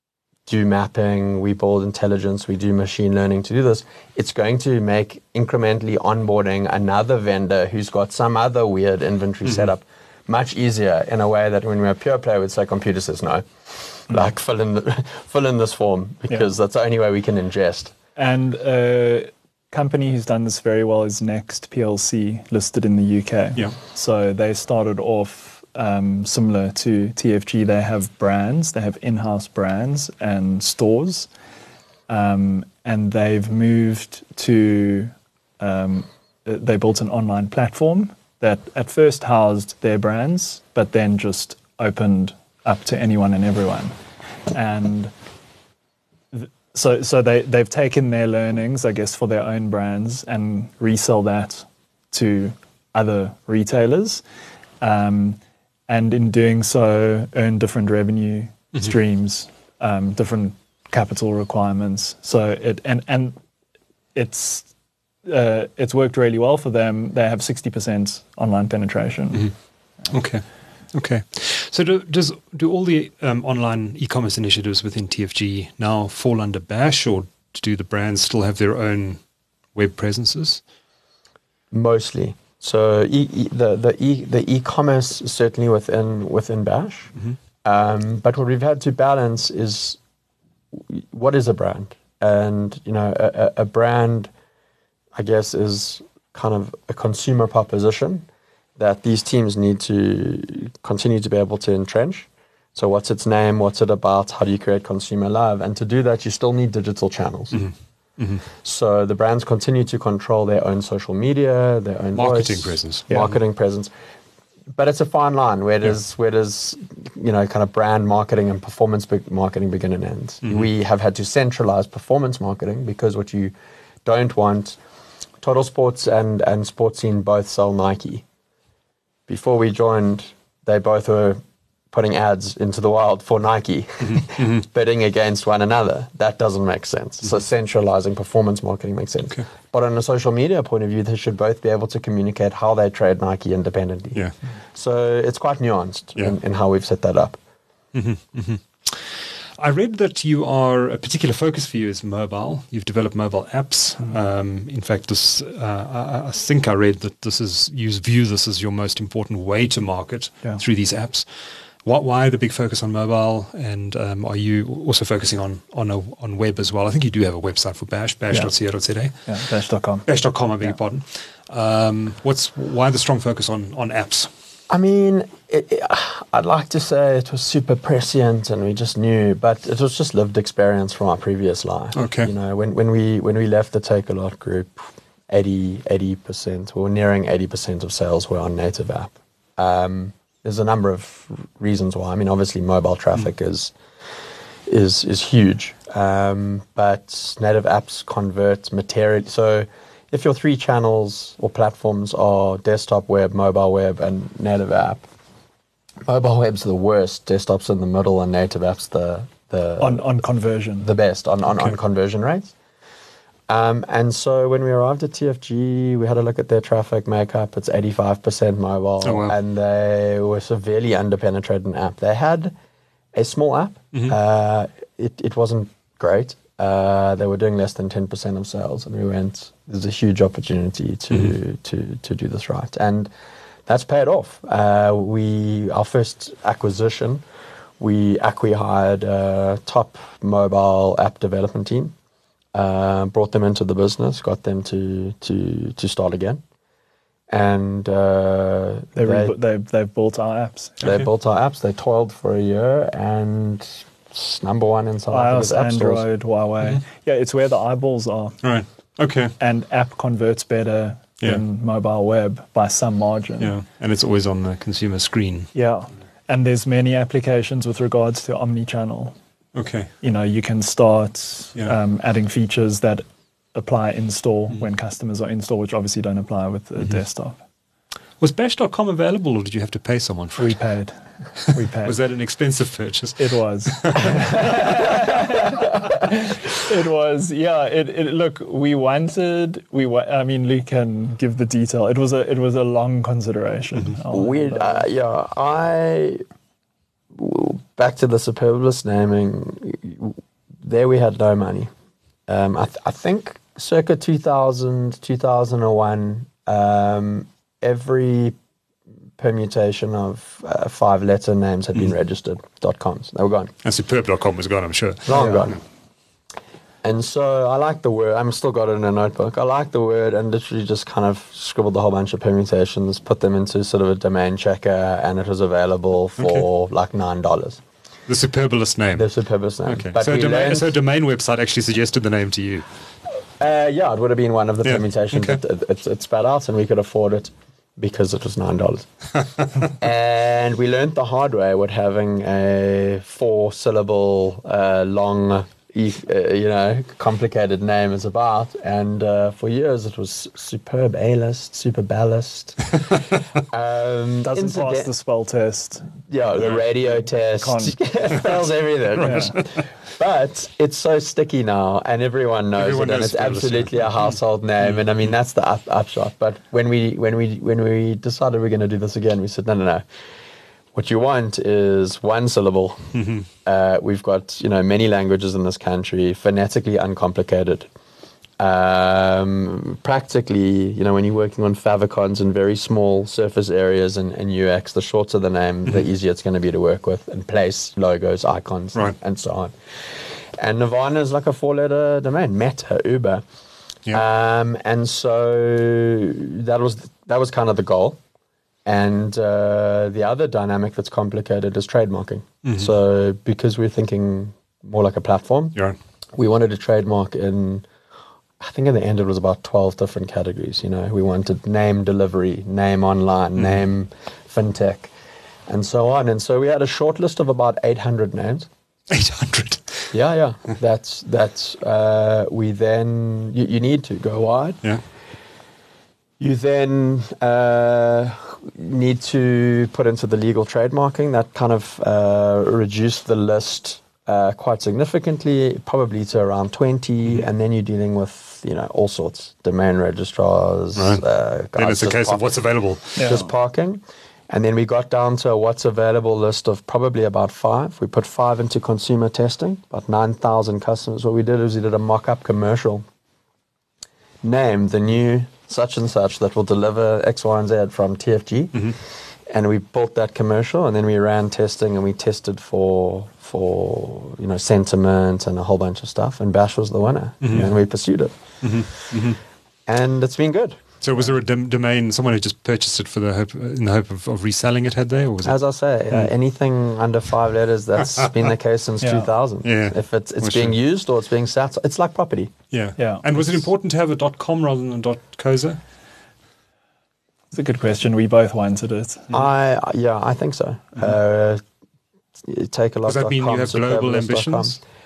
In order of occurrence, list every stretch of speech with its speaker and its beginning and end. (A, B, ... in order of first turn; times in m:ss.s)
0:00.5-0:17.9 A
0:18.2-0:31.3 B
0:32.1-0:44.0 B
0:44.5-0:45.1 B
0:46.3-0:54.2 B
0:54.8-1:03.4 B
1:04.2-1:04.7 B
1:05.3-1:09.5 B
1:10.1-1:19.2 C
1:19.8-1:20.6 C
1:21.7-1:27.1 A
1:27.6-1:30.0 A
1:30.7-1:34.3 A
1:35.2-1:47.7 A
1:47.5-1:48.4 C
1:48.6-1:53.9 A
1:52.2-1:53.1 C
1:54.7-2:03.5 A
2:04.0-2:04.8 A
2:05.4-2:08.2 A
2:09.3-2:27.4 A
2:14.0-2:14.6 C
2:27.9-2:29.0 C
2:29.6-2:41.3 C
2:41.8-2:49.4 C
2:49.3-2:50.1 B
2:50.1-2:54.3 C
2:54.7-3:13.8 A
3:02.0-3:02.3 C
3:14.7-3:25.0 A
3:26.1-3:30.1 A
3:29.8-3:30.9 B
3:30.8-3:32.5 A
3:33.5-3:42.6 A
3:39.0-3:39.4 C
3:43.1-3:53.1 A
3:53.7-3:57.2 A
3:57.8-4:02.0 A
4:02.5-4:06.4 A
4:07.3-4:09.4 A
4:09.0-4:10.8 B
4:10.8-4:11.1 C
4:10.8-4:16.0 A
4:15.1-4:18.4 B
4:18.4-4:19.4 C
4:19.4-4:23.5 B
4:23.4-4:25.5 C
4:25.5-4:29.2 B
4:29.6-4:29.9 C
4:30.0-4:37.4 B
4:38.2-4:40.6 C
4:40.4-4:42.0 B
4:41.8-4:45.0 C
4:43.2-4:54.9 B
4:54.1-4:56.2 A
4:57.1-5:01.7 A
5:02.3-5:08.4 A
5:09.2-5:13.5 A
5:13.6-5:15.5 C
5:15.1-5:15.6 A
5:15.2-5:15.4 B
5:16.8-5:27.6 A
5:28.1-5:29.1 C
5:29.0-5:30.7 A
5:29.7-5:32.7 C
5:33.4-5:38.9 A
5:34.6-5:35.4 C
5:39.7-5:54.9 A
5:54.2-5:55.9 B
5:56.1-6:09.8 A
5:56.5-5:57.8 B
5:59.0-5:59.7 C
5:59.0-5:59.4 B
6:02.6-6:04.1 C
6:10.7-6:17.7 A
6:13.0-6:13.3 C
6:18.4-6:29.5 A
6:30.4-6:33.2 A
6:33.9-6:38.0 A
6:38.6-6:45.6 A
6:42.4-6:42.7 C
6:46.2-6:47.7 A
6:48.4-6:54.9 A
6:55.5-6:58.5 A
6:58.9-6:59.9 C
6:59.9-7:04.6 A
7:06.2-7:22.3 A
7:20.8-7:21.0 C
7:21.6-7:23.1 C
7:23.0-7:23.3 B
7:23.0-7:32.8 A
7:34.2-7:38.8 A
7:39.3-7:48.1 A
7:47.2-7:47.5 C
7:48.4-7:49.2 C
7:49.7-7:50.6 A
7:50.8-7:55.4 C
7:55.2-8:02.3 A
7:58.8-7:59.1 B
7:59.4-8:00.5 C
8:02.5-8:05.6 C
8:02.8-8:03.0 B
8:07.3-8:09.1 B
8:09.1-8:11.4 A
8:12.2-8:14.6 A
8:12.9-8:14.6 C